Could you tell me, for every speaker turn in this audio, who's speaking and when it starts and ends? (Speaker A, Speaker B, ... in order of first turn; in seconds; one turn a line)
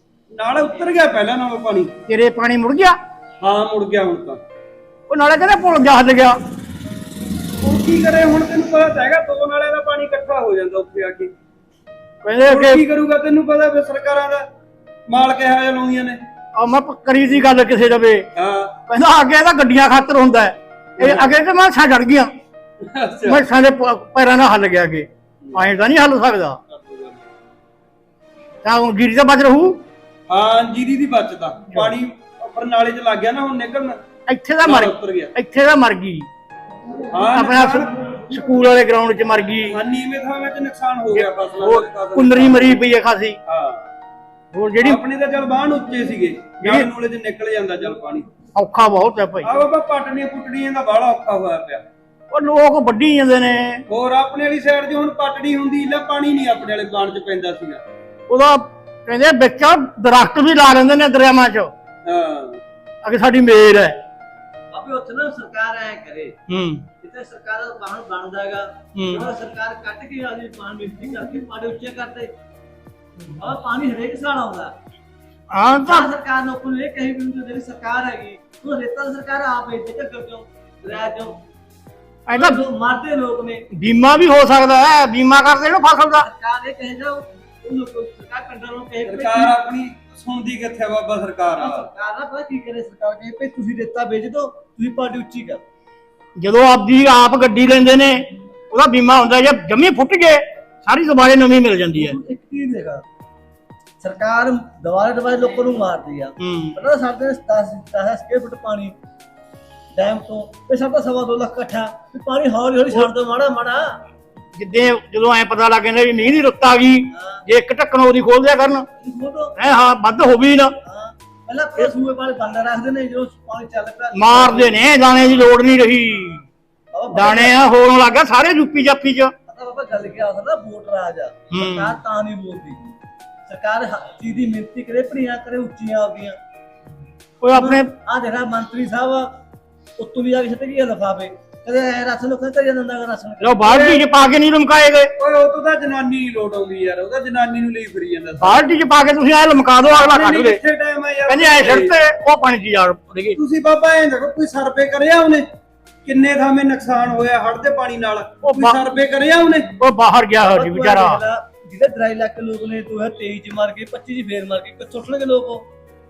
Speaker A: 0.3-1.9
Speaker B: 2.1-3.0
Speaker A: 3.4-4.4
Speaker B: 5.1-6.4
Speaker A: 7.6-11.3
Speaker B: 12.2-12.8
Speaker A: 12.4-14.4
Speaker A: 15.1-16.2
Speaker B: 16.6-18.3
Speaker A: 18.4-18.8
Speaker B: 18.9-22.3
Speaker A: 21.0-21.3
Speaker A: 22.8-23.4
Speaker B: 23.3-26.6
Speaker A: 26.7-27.2
Speaker B: 28.6-29.8
Speaker A: 30.3-34.0
Speaker B: 34.3-36.3
Speaker A: 34.6-35.3
Speaker A: 37.1-37.9
Speaker B: 37.3-39.8
Speaker A: 39.7-42.7
Speaker B: 41.1-43.4
Speaker A: 43.5-43.8
Speaker B: 44.5-45.0
Speaker A: 44.8-48.3
Speaker B: 46.6-46.9
Speaker B: 48.5-49.5
Speaker A: 49.4-51.8
Speaker B: 52.3-53.8
Speaker A: 53.9-57.8
Speaker B: 58.3-61.7
Speaker A: 62.1-62.6
Speaker B: 63.0-64.0
Speaker C: 64.7-66.3
Speaker B: 66.5-66.8
Speaker C: 67.0-72.3
Speaker B: 69.0-69.3
Speaker C: 73.4-74.7
Speaker B: 75.5-76.1
Speaker C: 75.8-81.4
Speaker B: 82.3-82.6
Speaker C: 82.3-83.6
Speaker B: 83.7-86.3
Speaker C: 86.2-89.5
Speaker A: 89.1-91.9
Speaker C: 91.6-95.6
Speaker B: 96.4-102.2
Speaker C: 102.0-103.0
Speaker C: 104.0-109.0
Speaker B: 106.4-106.8
Speaker C: 109.9-113.8
Speaker B: 114.5-118.9
Speaker C: 117.1-117.4
Speaker C: 119.0-119.5
Speaker B: 119.6-120.8
Speaker C: 120.8-124.8
Speaker B: 124.1-126.4
Speaker C: 126.9-127.6
Speaker B: 127.1-129.3
Speaker C: 129.5-132.8
Speaker B: 131.5-132.0
Speaker C: 133.5-136.4
Speaker B: 137.4-137.9
Speaker C: 137.5-139.4
Speaker C: 140.0-143.7
Speaker B: 143.4-145.1
Speaker A: 143.7-144.0
Speaker A: 145.2-148.6
Speaker B: 148.4-150.6
Speaker A: 149.9-151.9
Speaker B: 151.3-153.4
Speaker A: 153.4-155.4
Speaker A: 156.1-159.7
Speaker B: 158.4-158.8
Speaker B: 159.8-161.2
Speaker C: 160.4-165.7